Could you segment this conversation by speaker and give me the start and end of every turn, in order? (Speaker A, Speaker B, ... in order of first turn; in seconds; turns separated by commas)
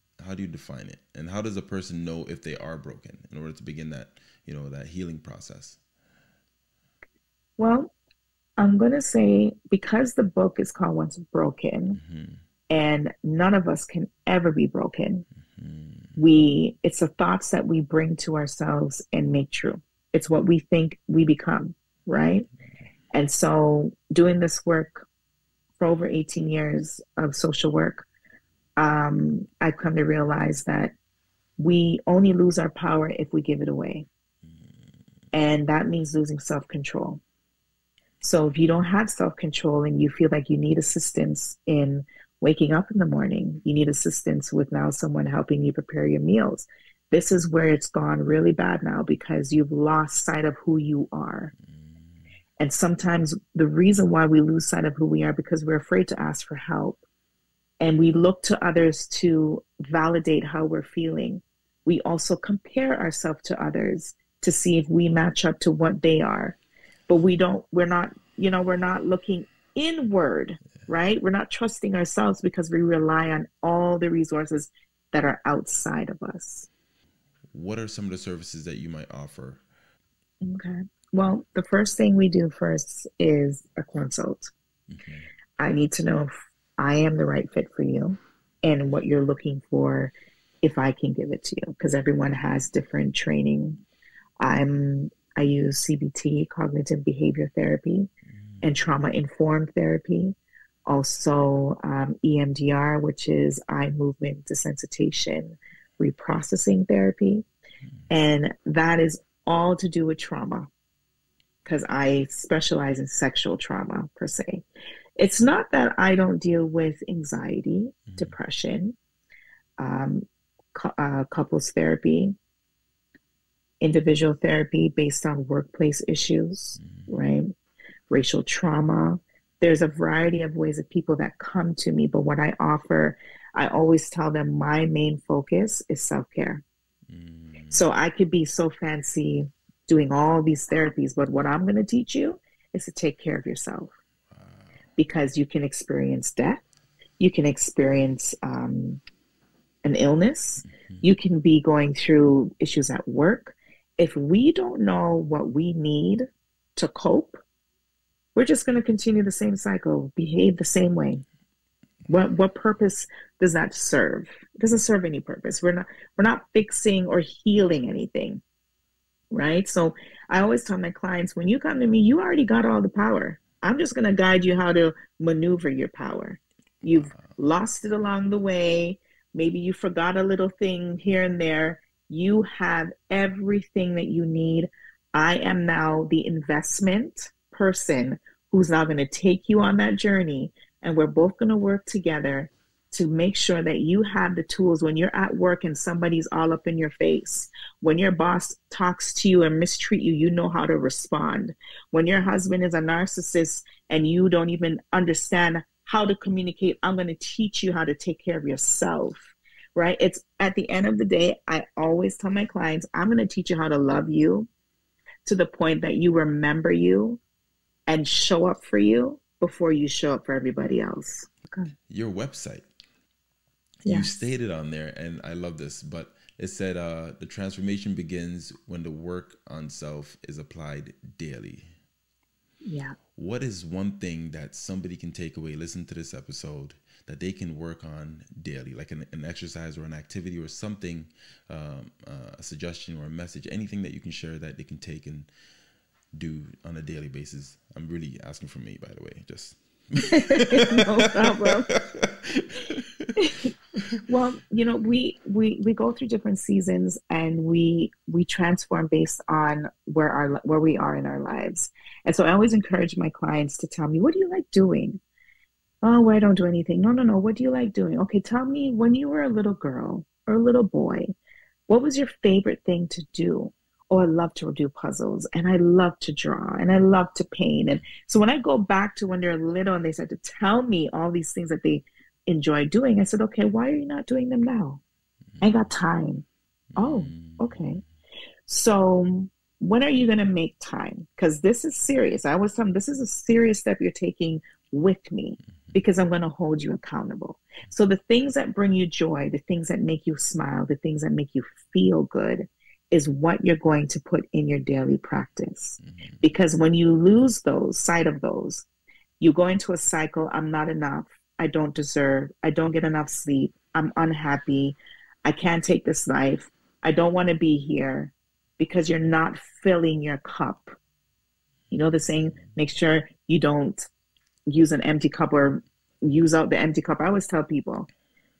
Speaker A: 0.2-5.8, Speaker B: 7.6-7.9, Speaker B: 8.6-12.0, Speaker A: 11.9-12.4, Speaker B: 12.7-15.2, Speaker A: 15.5-16.2, Speaker B: 16.2-22.5, Speaker B: 23.1-25.1, Speaker B: 25.8-28.1, Speaker B: 28.8-30.9, Speaker B: 31.6-34.1, Speaker B: 35.3-37.2, Speaker B: 38.2-51.5, Speaker A: 51.7-52.0, Speaker B: 52.6-57.0, Speaker B: 57.8-76.7, Speaker A: 77.5-79.6, Speaker B: 80.4-84.5, Speaker A: 84.9-85.3, Speaker B: 85.6-93.8, Speaker B: 94.4-98.1, Speaker A: 98.3-98.6, Speaker B: 98.6-107.5, Speaker B: 108.1-110.7, Speaker B: 111.6-114.6, Speaker B: 115.2-119.0, Speaker A: 118.1-118.3, Speaker B: 119.8-122.4, Speaker B: 123.8-127.5, Speaker A: 126.8-127.2, Speaker B: 128.1-136.6, Speaker A: 137.1-137.8, Speaker B: 137.7-143.9, Speaker A: 144.3-144.8, Speaker B: 145.0-146.6, Speaker B: 147.2-149.0, Speaker B: 149.8-157.4, Speaker A: 150.6-151.0, Speaker B: 158.3-161.2, Speaker B: 162.1-168.4, Speaker B: 169.3-214.5, Speaker A: 176.9-177.4, Speaker B: 215.2-217.2, Speaker B: 217.9-221.7, Speaker A: 221.9-222.7, Speaker B: 223.8-224.1, Speaker A: 223.8-231.7, Speaker B: 232.6-232.9, Speaker A: 233.2-245.3, Speaker A: 246.1-253.2, Speaker B: 250.0-251.7, Speaker B: 253.2-253.5, Speaker B: 254.1-265.0, Speaker B: 265.8-271.1, Speaker B: 271.7-284.8, Speaker A: 285.4-285.6, Speaker B: 285.4-286.2, Speaker A: 286.7-287.8, Speaker B: 286.8-287.8, Speaker B: 288.5-308.6, Speaker A: 305.8-306.2, Speaker B: 309.2-320.7, Speaker B: 321.7-323.9, Speaker A: 322.0-322.5, Speaker B: 324.5-327.9